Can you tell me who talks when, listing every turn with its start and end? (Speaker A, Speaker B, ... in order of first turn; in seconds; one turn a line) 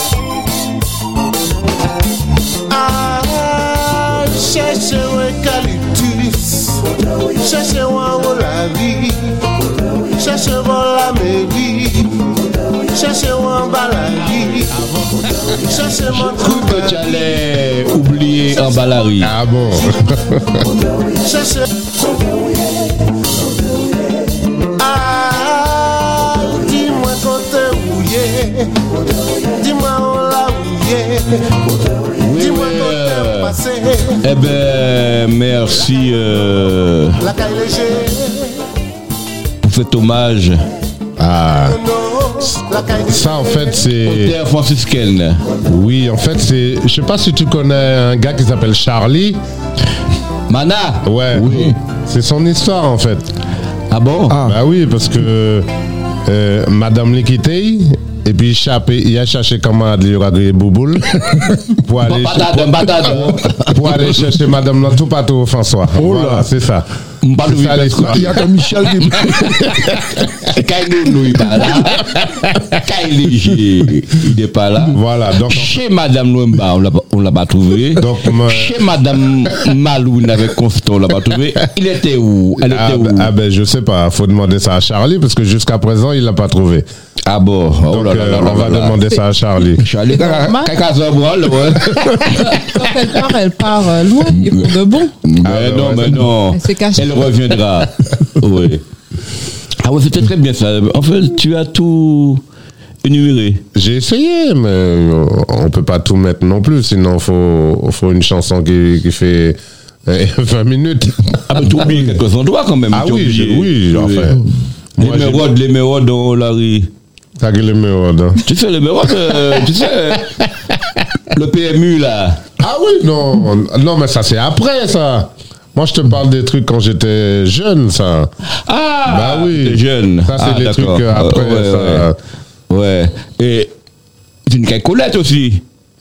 Speaker A: 2.7-9.6
Speaker A: 10.2-12.3
Speaker A: 12.9-17.2
Speaker B: 16.1-19.3
Speaker C: 19.2-20.6
Speaker A: 21.2-21.9
Speaker A: 24.8-28.9
Speaker A: 29.5-31.7
Speaker B: 32.2-33.5
Speaker A: 32.2-34.3
Speaker B: 34.2-37.2
Speaker A: 37.2-38.7
Speaker B: 39.6-40.7
Speaker C: 41.2-41.8
Speaker A: 41.6-43.9
Speaker C: 43.0-44.4
Speaker B: 44.0-45.5
Speaker C: 45.6-49.4
Speaker B: 50.5-51.8
Speaker C: 51.0-53.3
Speaker B: 53.9-54.4
Speaker D: 54.3-54.6
Speaker C: 54.4-55.7
Speaker C: 56.2-63.1
Speaker B: 62.0-64.1
Speaker C: 63.7-66.9
Speaker D: 66.0-66.5
Speaker B: 67.2-68.4
Speaker C: 67.5-68.4
Speaker D: 68.1-69.8
Speaker C: 69.4-70.3
Speaker B: 70.5-72.2
Speaker B: 72.8-83.3
Speaker C: 74.9-75.7
Speaker C: 78.0-78.8
Speaker C: 82.6-86.9
Speaker B: 87.3-89.0
Speaker C: 87.9-89.8
Speaker B: 89.8-92.7
Speaker E: 90.1-90.7
Speaker E: 92.2-95.2
Speaker B: 95.2-98.8
Speaker C: 95.4-96.3
Speaker E: 96.5-97.3
Speaker B: 99.8-102.4
Speaker B: 103.0-103.6
Speaker C: 103.7-111.3
Speaker B: 111.5-114.4
Speaker C: 112.9-114.4
Speaker B: 115.0-116.9
Speaker C: 115.0-115.5
Speaker C: 117.4-118.4
Speaker B: 118.5-120.4
Speaker B: 121.3-122.4
Speaker C: 122.6-128.3
Speaker B: 128.7-132.1
Speaker C: 129.1-132.2
Speaker B: 132.7-133.7
Speaker B: 134.5-135.6